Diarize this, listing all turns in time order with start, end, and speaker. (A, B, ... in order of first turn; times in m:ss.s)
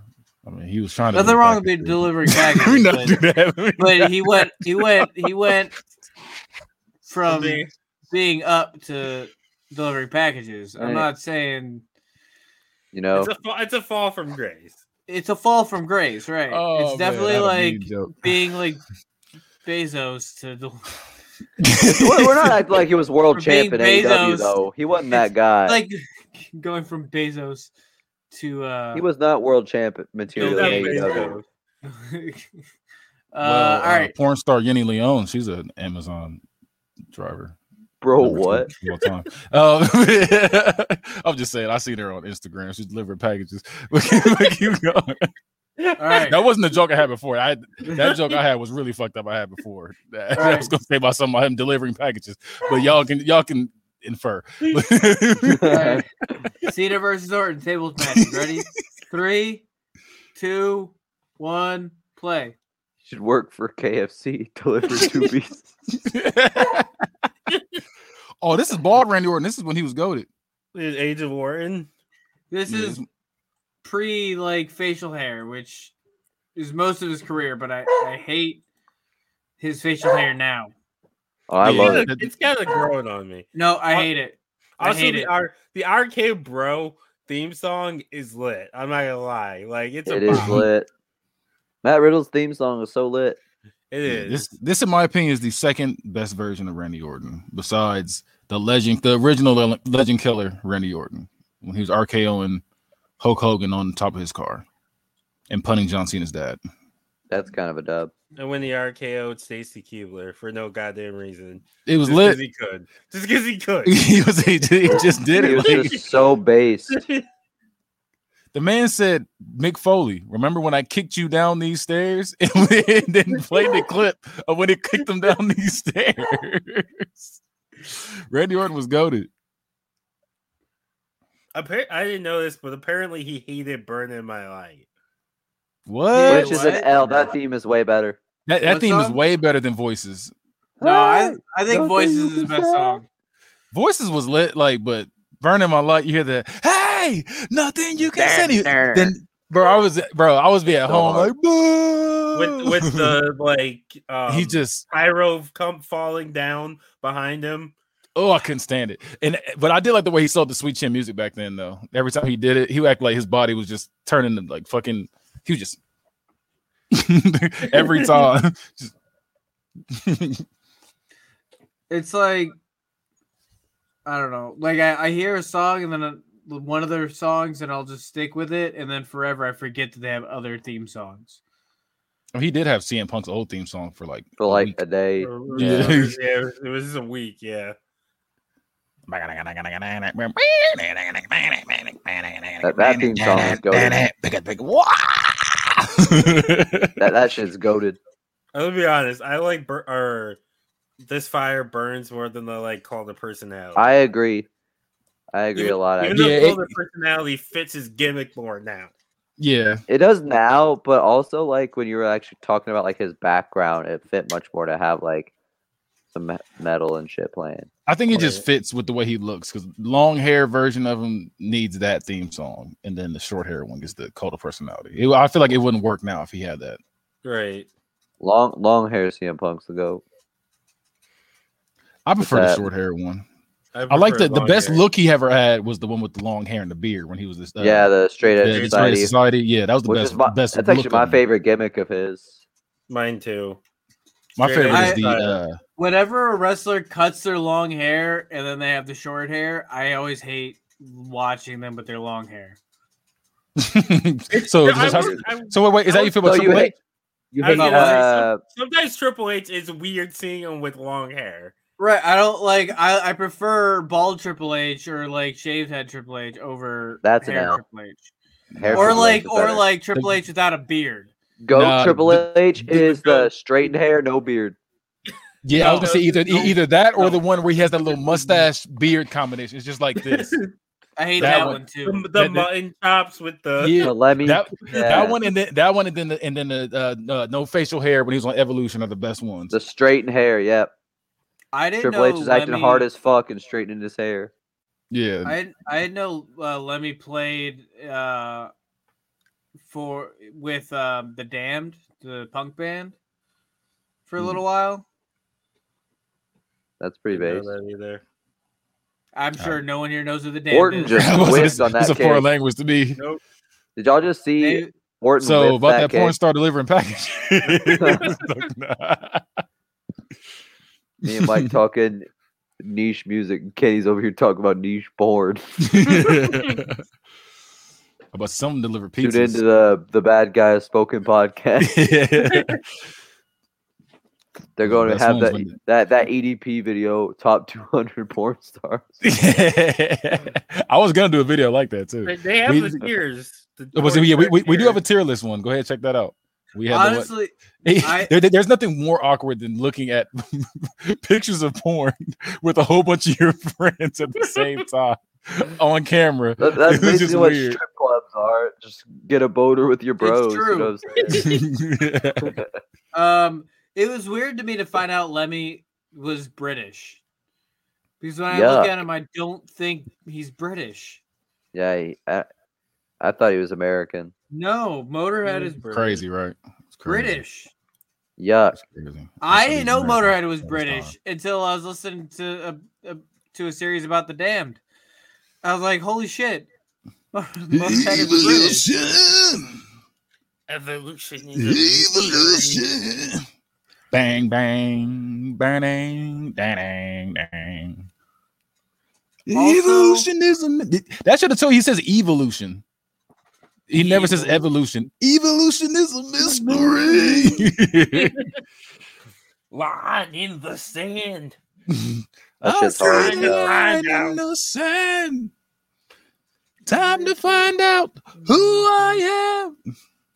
0:00.4-0:05.6 A
0:01.1-0:03.2 B
0:03.8-0:05.7 B
0:07.0-0:11.8 B
0:07.3-0:07.7 C
0:10.8-0:11.1 D
0:12.9-0:13.3 D
0:13.1-0:14.8 C
0:15.1-0:18.8 B
0:16.5-0:18.5 A
0:19.6-0:20.9 B
0:21.6-0:22.6 A
0:21.8-0:25.8 D
0:23.3-0:24.6 B
0:25.1-0:27.7 B
0:28.3-0:29.0 B
0:28.9-0:31.4 D
0:30.4-0:31.4 C
0:30.4-0:31.2 B
0:31.8-0:32.5 B
0:33.3-0:34.1 B
0:33.4-0:36.4 A
0:37.1-0:37.6 A
0:38.0-0:38.7 D
0:38.2-0:45.2 A
0:45.8-0:46.3 C
0:46.0-0:46.4 B
0:46.3-0:56.0 A
0:50.4-0:50.7 B
0:54.6-0:54.9 C
0:55.4-0:56.0 D
0:55.7-0:56.0 B
0:56.6-0:59.6 B
0:58.1-0:58.5 A
1:00.4-1:02.6 B
1:03.0-1:05.7 D
1:06.0-1:06.9 A
1:08.4-1:10.3 A
1:10.7-1:11.9 C
1:12.5-1:13.0 B
1:12.7-1:13.0 A
1:13.8-1:15.9 B
1:16.6-1:18.6 B
1:19.6-1:20.7 B
1:21.5-1:22.1 D
1:21.6-1:22.3 A
1:21.6-1:24.1 C
1:23.6-1:25.3 B
1:24.8-1:30.6 C
1:30.1-1:30.9 D
1:30.3-1:30.7 A
1:31.8-1:33.4 D
1:33.9-1:34.5 C
1:34.1-1:42.6 A
1:43.2-1:44.6 A
1:45.5-1:46.6 A
1:47.3-1:48.1 D
1:48.4-1:54.0 C
1:51.9-1:52.4 A
1:53.8-1:56.0 A
1:54.9-1:57.0 D
1:55.5-1:56.1 C
1:56.9-1:57.2 C
1:58.5-2:09.3 A
2:11.6-2:14.8 C
2:15.9-2:16.6 A
2:16.1-2:17.3 B
2:16.3-2:18.2 D
2:18.4-2:20.3 A
2:18.6-2:19.2 B
2:20.8-2:23.0 D
2:20.8-2:23.1 B
2:23.7-2:33.2 A
2:30.9-2:31.3 D
2:32.3-2:37.7 C
2:34.3-2:34.8 A
2:38.2-2:45.8 A
2:46.9-2:48.9 A
2:47.7-2:48.2 C
2:49.9-2:50.4 A
2:51.9-2:52.6 B
2:54.1-3:01.4 B
3:02.3-3:04.8 A
3:04.4-3:05.9 D
3:05.2-3:07.7 C
3:05.5-3:06.2 A
3:09.1-3:17.1 A
3:12.6-3:14.0 D
3:17.0-3:18.0 D
3:18.5-3:20.4 C
3:21.0-3:23.9 C
3:23.8-3:24.5 D
3:25.3-3:26.3 D
3:25.6-3:28.9 C
3:26.1-3:26.7 A
3:29.4-3:29.8 A
3:29.9-3:35.3 D
3:36.1-3:37.7 D
3:37.9-3:46.8 A
3:38.1-3:38.4 C
3:47.2-3:47.7 C
3:48.2-3:50.0 D
3:52.1-3:53.2 A
3:52.2-3:52.7 D
3:53.7-3:54.8 C
3:53.9-3:57.9 A
3:57.6-3:59.1 D
3:58.4-4:01.2 A
3:58.4-3:59.0 C
3:59.9-4:02.4 D
4:02.9-4:03.6 C
4:04.4-4:05.6 A
4:04.4-4:05.4 C
4:04.7-4:05.1 B
4:05.8-4:12.6 B
4:13.6-4:16.7 A
4:14.3-4:16.4 C
4:14.8-4:15.2 D
4:16.2-4:16.7 D
4:17.3-4:18.4 D
4:17.4-4:21.5 C
4:17.5-4:18.0 B
4:21.8-4:28.1 B
4:27.0-4:27.6 D
4:28.5-4:29.2 A
4:28.6-4:29.6 D
4:28.7-4:31.1 B
4:31.4-4:34.6 D
4:31.5-4:32.7 A
4:32.7-4:33.3 C
4:35.4-4:40.4 A
4:35.5-4:37.2 C
4:35.6-4:35.9 B
4:40.0-4:40.5 C
4:41.0-4:42.0 B
4:41.2-4:41.6 A
4:41.2-4:43.9 C
4:42.1-4:42.5 A
4:43.6-4:49.5 A
4:43.8-4:45.2 D
4:44.7-4:45.1 C
4:49.5-4:50.7 D
4:51.5-4:52.9 B
4:51.8-4:54.3 D
4:54.9-4:55.4 A
4:55.2-4:58.5 B
4:59.6-5:03.0 B
5:04.1-5:04.8 B
5:06.8-5:07.5 D
5:07.1-5:08.0 C
5:09.1-5:11.6 B
5:09.4-5:09.6 A
5:10.5-5:12.2 D
5:10.9-5:13.0 A
5:13.0-5:13.2 C
5:13.8-5:16.1 D
5:14.4-5:14.7 B
5:15.2-5:19.4 A
5:17.5-5:18.3 C
5:21.0-5:21.5 A
5:21.0-5:22.1 D
5:22.6-5:25.9 D
5:25.6-5:26.8 A
5:25.9-5:26.6 C
5:28.1-5:29.4 A
5:29.0-5:31.8 D
5:31.6-5:32.6 A
5:32.3-5:32.6 C
5:34.6-5:38.9 D
5:34.6-5:35.6 A
5:39.0-5:42.9 A
5:42.1-5:44.8 C
5:43.7-5:47.1 A
5:46.7-5:48.1 B
5:47.6-5:57.6 A
5:54.2-5:54.6 C
5:56.4-6:01.2 D
6:00.0-6:00.7 B
6:01.0-6:01.4 C
6:01.1-6:02.4 A
6:02.2-6:02.5 D
6:02.9-6:07.0 B
6:08.0-6:11.0 B
6:08.3-6:08.7 D
6:11.5-6:12.3 D
6:13.0-6:14.1 D
6:14.3-6:15.6 B
6:15.2-6:16.0 C
6:15.7-6:17.2 A
6:16.8-6:17.5 B
6:18.2-6:18.6 D
6:18.6-6:20.9 A
6:19.2-6:24.6 B
6:25.4-6:26.5 B
6:27.1-6:28.7 B
6:27.5-6:29.6 A
6:30.5-6:32.6 C
6:31.4-6:33.3 A
6:33.9-6:37.9 A
6:39.3-6:42.6 A
6:39.3-6:40.1 B
6:43.7-6:48.1 A
6:43.7-6:44.5 C
6:46.5-6:47.1 B
6:47.9-6:48.3 C
6:49.5-6:51.4 C
6:51.7-6:55.3 A
6:52.4-6:53.5 D
6:52.8-6:54.2 C
6:56.7-6:59.5 A
6:56.7-6:57.2 B
6:58.2-6:59.0 B